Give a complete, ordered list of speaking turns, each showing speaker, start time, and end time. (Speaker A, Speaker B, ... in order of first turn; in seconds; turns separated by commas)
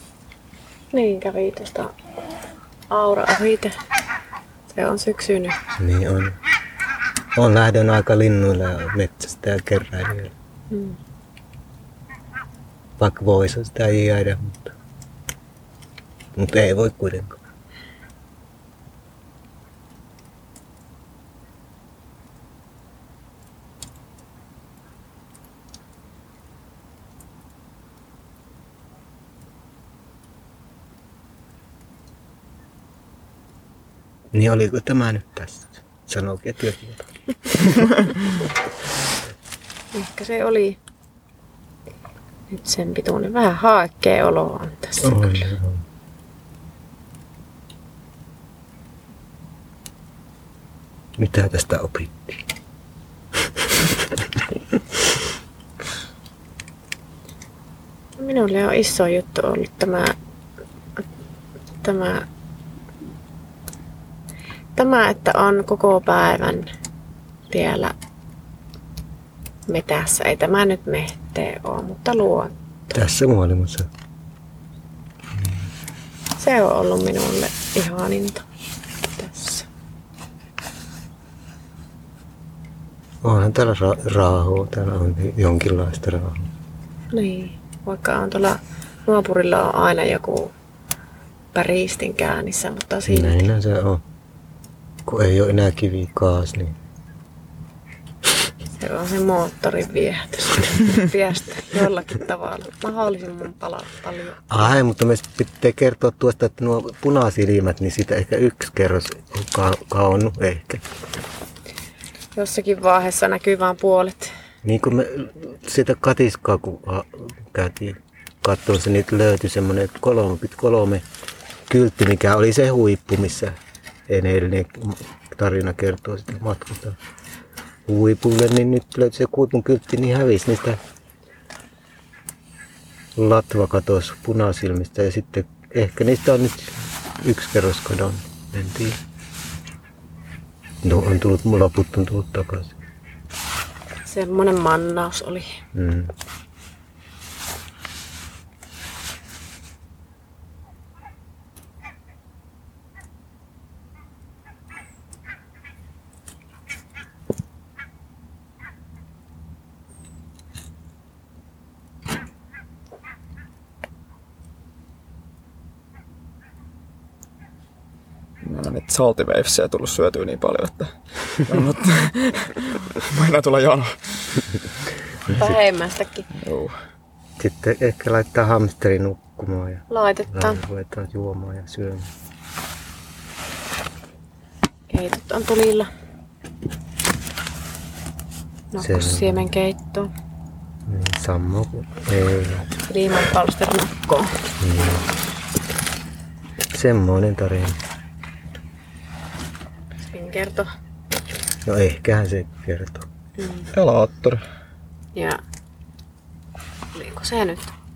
Speaker A: 0.9-1.9, Speaker A: 2.9-3.7, Speaker A: 4.7-5.6, Speaker B: 5.8-6.3, Speaker B: 7.3-10.3, Speaker A: 10.7-11.0, Speaker B: 13.0-14.7, Speaker B: 16.3-17.4, Speaker B: 34.3-38.0, Speaker A: 39.9-40.8, Speaker A: 42.5-45.5, Speaker B: 45.0-45.8, Speaker B: 51.2-52.4, Speaker B: 53.6-54.1, Speaker A: 58.2-60.1, Speaker A: 61.8-62.2, Speaker A: 64.8-66.7, Speaker A: 67.5-67.9, Speaker A: 69.7-73.0, Speaker B: 72.9-73.9, Speaker B: 75.4-75.6, Speaker A: 76.4-78.4, Speaker A: 79.1-79.7, Speaker B: 83.2-86.5, Speaker A: 87.1-90.5, Speaker A: 91.5-93.5, Speaker B: 93.0-94.0, Speaker B: 95.0-96.8, Speaker A: 98.8-104.7, Speaker B: 104.5-110.8, Speaker A: 112.3-114.3, Speaker B: 114.6-121.0, Speaker B: 121.7-123.5, Speaker B: 124.1-127.0, Speaker B: 127.8-130.8, Speaker B: 133.2-139.0, Speaker B: 140.8-142.8, Speaker A: 144.1-145.5, Speaker B: 145.7-146.1, Speaker C: 168.4-174.0, Speaker A: 175.4-176.3, Speaker C: 176.3-176.7, Speaker B: 177.4-182.1, Speaker A: 179.9-180.6, Speaker A: 184.9-185.9, Speaker A: 188.7-190.1, Speaker B: 188.8-189.5, Speaker B: 190.8-192.7, Speaker A: 192.9-194.3, Speaker B: 194.6-195.1, Speaker B: 196.7-197.8, Speaker A: 200.1-200.7, Speaker B: 201.6-203.1, Speaker A: 203.4-203.7, Speaker C: 203.7-204.4, Speaker A: 205.1-205.4, Speaker A: 206.9-207.7